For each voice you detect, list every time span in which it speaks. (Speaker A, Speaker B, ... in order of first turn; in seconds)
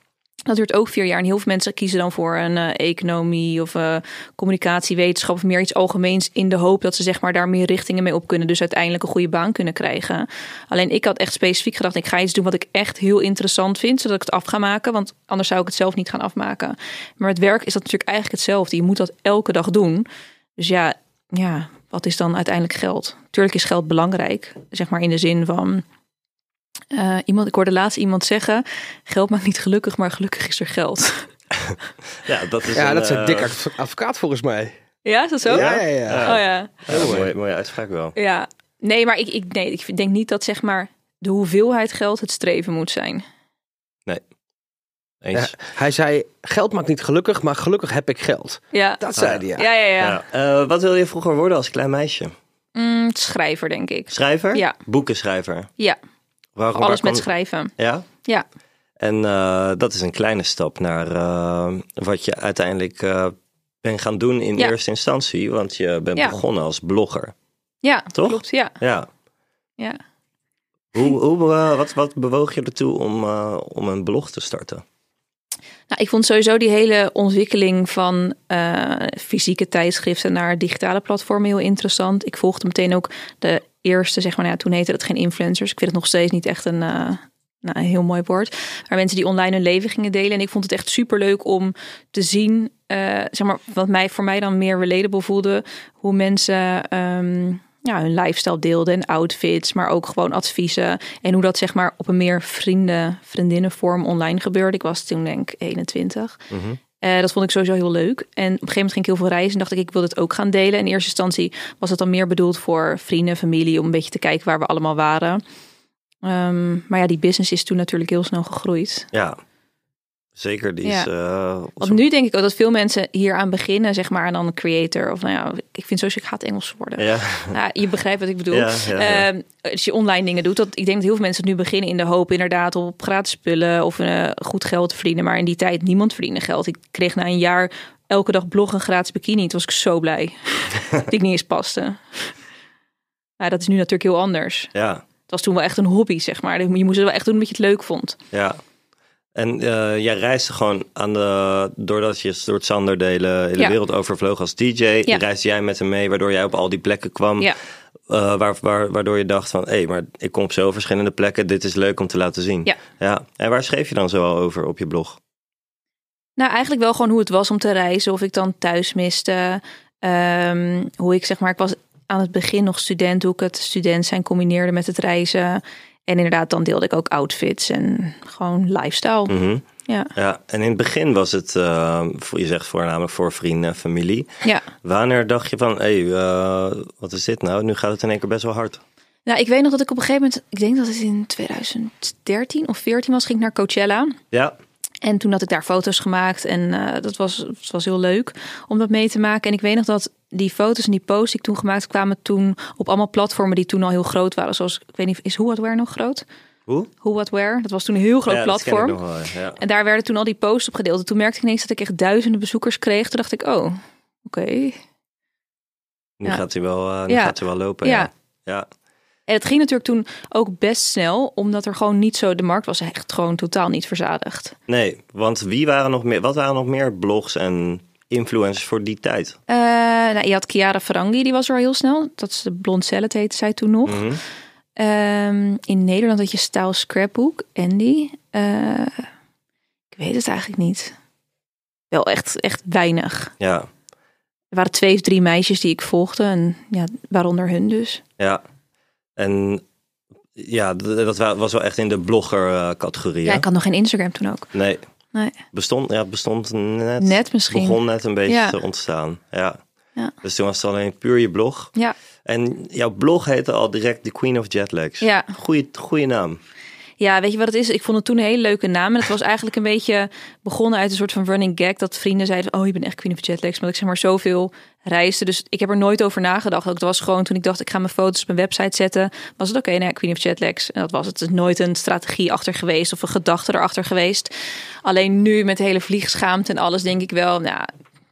Speaker A: 0.5-20.1, 20.6-25.8, 26.9-31.3, 35.0-36.7, 38.2-43.2, 48.7-49.0, 49.5-50.2, 52.8-54.8, 56.8-58.5, 67.8-68.8, 75.9-106.4, 107.0-115.4, 116.2-119.1, 120.8-121.1, 121.8-142.3, 143.4-144.7, 145.3-148.2, 166.4-180.1, 189.3-194.2, 195.0-206.2, 207.0-209.0, 209.6-214.8, 217.1-218.1, 219.3-224.6, 229.5-234.2, 234.8-239.1, 239.9-240.9, 241.9-243.3, 244.5-248.0, 253.2-254.5, 257.0-258.6, 265.0-265.3, 267.0-284.3, 284.8-287.7
Speaker B: 32.2-33.5, 35.5-38.2, 45.2-45.5, 49.2-49.5, 50.0-52.3, 54.1-55.7, 57.0-57.2, 57.8-58.1, 59.0-67.3, 68.1-69.1, 70.9-74.8, 106.5-106.8, 119.1-119.4, 120.4-122.0, 127.0-127.5, 128.5-129.3, 144.8-145.0, 148.3-148.6, 149.3-157.5, 158.1-165.2, 179.3-179.6, 180.2-184.3, 184.8-188.8, 208.3-209.6, 216.2-218.7, 224.7-229.4, 233.9-234.2, 243.4-243.7, 249.2-249.6, 250.4-253.4, 254.5-254.8, 255.5-259.6, 260.2-261.7, 262.2-266.4
Speaker C: 32.7-34.7, 35.5-37.3, 45.3-49.7, 56.6-57.0